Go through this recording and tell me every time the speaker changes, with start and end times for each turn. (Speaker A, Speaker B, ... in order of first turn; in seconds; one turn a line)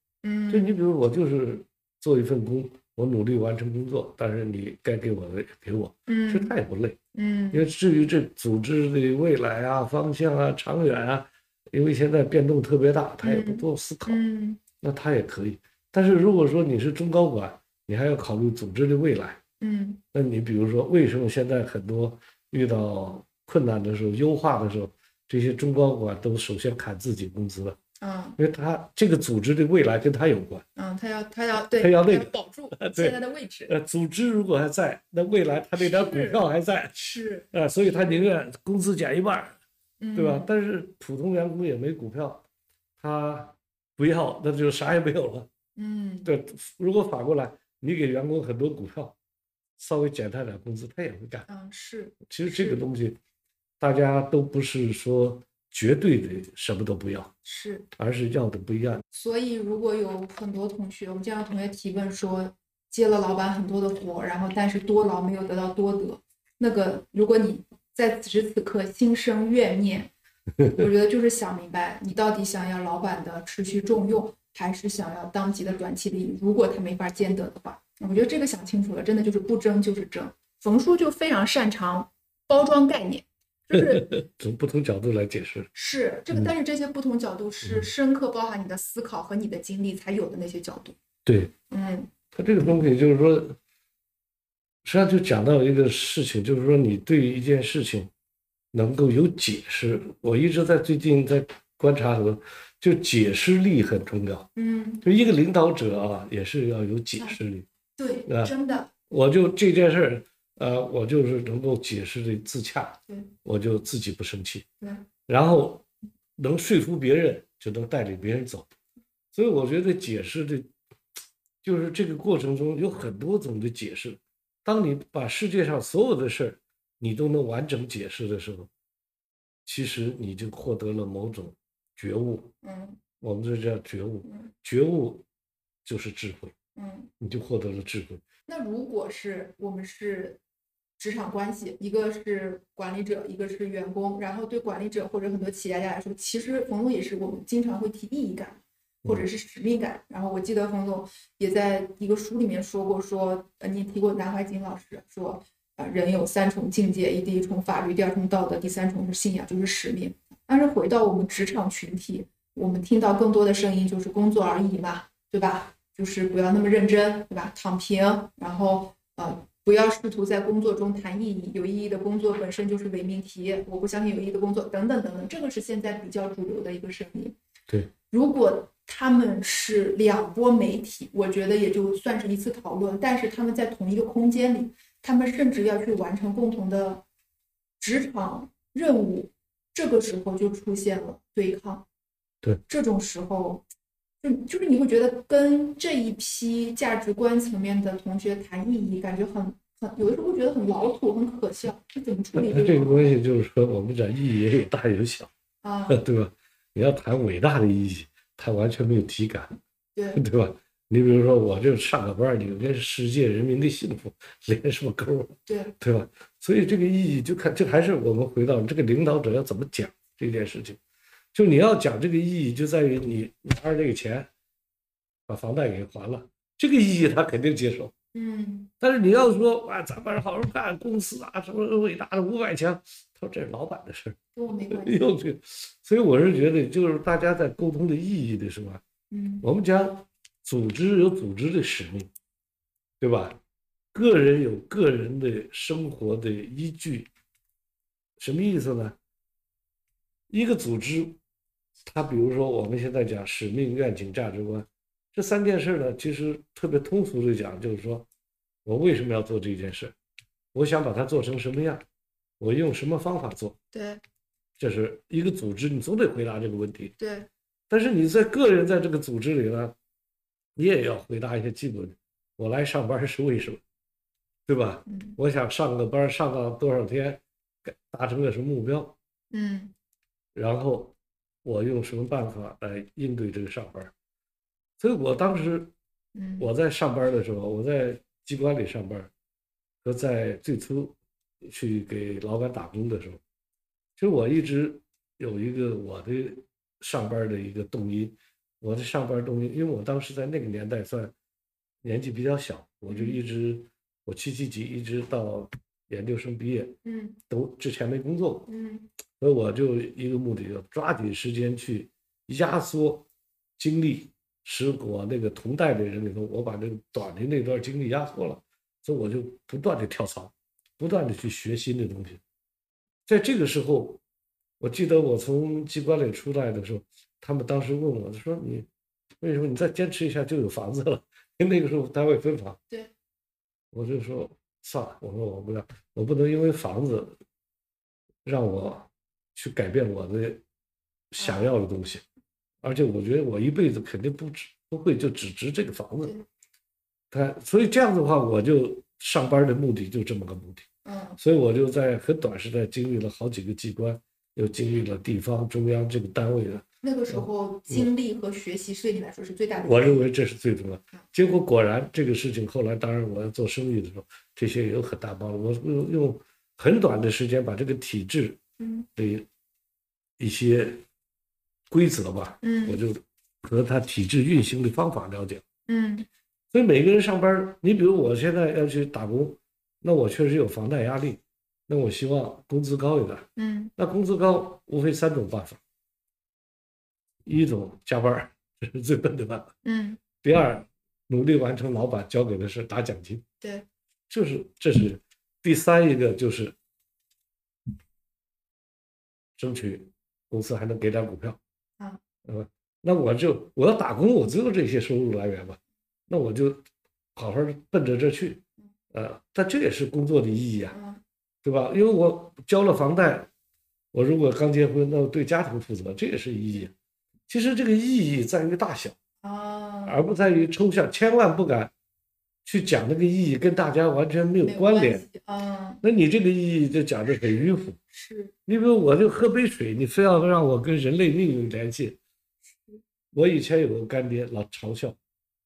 Speaker A: 0.2-0.8
Speaker B: 0.5-7.0
Speaker A: 6.1-6.5
Speaker A: 7.1-7.7
Speaker B: 7.5-14.2
Speaker A: 13.2-14.6
Speaker B: 14.8-19.4
Speaker A: 19.6-20.0
Speaker B: 20.1-27.8
Speaker A: 28.0-28.4
Speaker B: 28.4-30.6
Speaker A: 30.8-33.7
Speaker B: 31.6-33.2
Speaker B: 33.7-39.6
Speaker A: 35.8-36.4
Speaker A: 37.0-37.5
Speaker A: 40.0-40.5
Speaker B: 40.1-42.4
Speaker B: 43.0-45.5
Speaker A: 45.8-46.3
Speaker B: 46.2-49.1
Speaker B: 49.8-51.5
Speaker A: 51.5-52.8
Speaker B: 52.3-53.2
Speaker B: 53.8-57.3
Speaker A: 57.4-57.9
Speaker B: 58.0-59.0
Speaker A: 59.1-70.1
Speaker A: 70.7-84.1
Speaker B: 83.7-85.7
Speaker A: 85.7-91.0
Speaker B: 87.6-87.9
Speaker B: 91.3-91.5
Speaker A: 91.7-92.1
Speaker B: 92.3-93.6
Speaker B: 94.8-98.1
Speaker B: 98.7-104.5
Speaker A: 104.6-105.0
Speaker B: 105.0-107.7
Speaker A: 108.0-108.9
Speaker B: 108.3-108.5
Speaker B: 109.1-114.7
Speaker A: 114.8-115.1
Speaker B: 115.3-115.9
Speaker B: 116.4-118.7
Speaker B: 119.3-120.7
Speaker B: 121.6-128.7
Speaker B: 129.7-132.5
Speaker A: 132.6-133.0
Speaker B: 133.2-135.2
Speaker A: 134.2-134.5
Speaker B: 135.8-136.5
Speaker A: 136.8-137.1
Speaker B: 137.2-138.2
Speaker A: 138.5-140.4
Speaker A: 141.0-177.4
Speaker A: 178.1-187.0
Speaker A: 187.8-191.9
Speaker A: 192.7-193.7
Speaker A: 194.2-203.2
Speaker B: 202.3-205.3
Speaker A: 205.6-206.0
Speaker B: 205.9-209.6
Speaker A: 209.9-210.2
Speaker B: 210.1-220.8
Speaker A: 215.5-215.7
Speaker B: 221.3-224.3
Speaker B: 225.3-227.9
Speaker A: 228.1-228.7
Speaker B: 228.8-238.8
Speaker A: 234.3-235.1
Speaker A: 239.1-239.5
Speaker B: 239.4-242.1
Speaker B: 243.0-243.4
Speaker B: 243.9-247.1
Speaker B: 248.2-249.0
Speaker B: 250.3-251.2
Speaker B: 251.9-258.1
Speaker B: 258.6-259.9
Speaker B: 260.5-261.8
Speaker B: 262.4-263.6
Speaker A: 263.7-264.0
Speaker B: 264.6-266.9
Speaker A: 267.0-267.3
Speaker B: 267.7-269.8
Speaker B: 270.6-273.6
Speaker B: 274.5-279.0
Speaker A: 274.9-275.2
Speaker A: 279.3-279.8
Speaker B: 280.4-283.9
Speaker B: 284.8-285.7
Speaker A: 286.1-286.5
Speaker B: 286.4-289.1
Speaker B: 289.8-293.2
Speaker B: 294.0-301.1
Speaker B: 301.8-306.8
Speaker A: 302.9-303.2
Speaker A: 306.9-307.2
Speaker B: 307.3-308.5
Speaker A: 308.5-308.9
Speaker B: 309.2-313.1
Speaker B: 313.6-322.2
Speaker B: 323.1-324.0
Speaker B: 324.6-328.7
Speaker B: 329.2-332.6
Speaker B: 333.7-337.1
Speaker B: 338.2-340.4
Speaker B: 341.1-342.0
Speaker A: 341.2-341.5
Speaker B: 342.6-346.1
Speaker B: 347.1-350.7
Speaker A: 350.9-351.2
Speaker B: 351.2-357.9
Speaker A: 356.8-360.1
Speaker B: 359.6-368.4
Speaker A: 368.6-368.9
Speaker B: 369.0-369.3
Speaker B: 370.2-370.8
Speaker B: 371.7-375.4
Speaker A: 372.4-372.8
Speaker A: 375.7-376.1
Speaker B: 376.5-385.6
Speaker A: 383.4-383.7
Speaker B: 387.2-389.6
Speaker A: 389.6-390.0
Speaker B: 390.2-393.2
Speaker A: 393.4-393.7
Speaker B: 394.1-396.6
Speaker B: 399.4-401.4
Speaker B: 402.2-406.6
Speaker B: 407.1-410.8
Speaker A: 410.7-411.0
Speaker B: 411.4-413.3
Speaker B: 413.9-416.7
Speaker B: 417.3-419.0
Speaker A: 419.2-420.0
Speaker B: 419.9-421.7
Speaker B: 422.4-425.1
Speaker A: 424.4-425.8
Speaker B: 425.8-427.8
Speaker A: 427.9-428.3
Speaker B: 428.5-432.0
Speaker A: 432.5-432.8
Speaker B: 433.1-435.0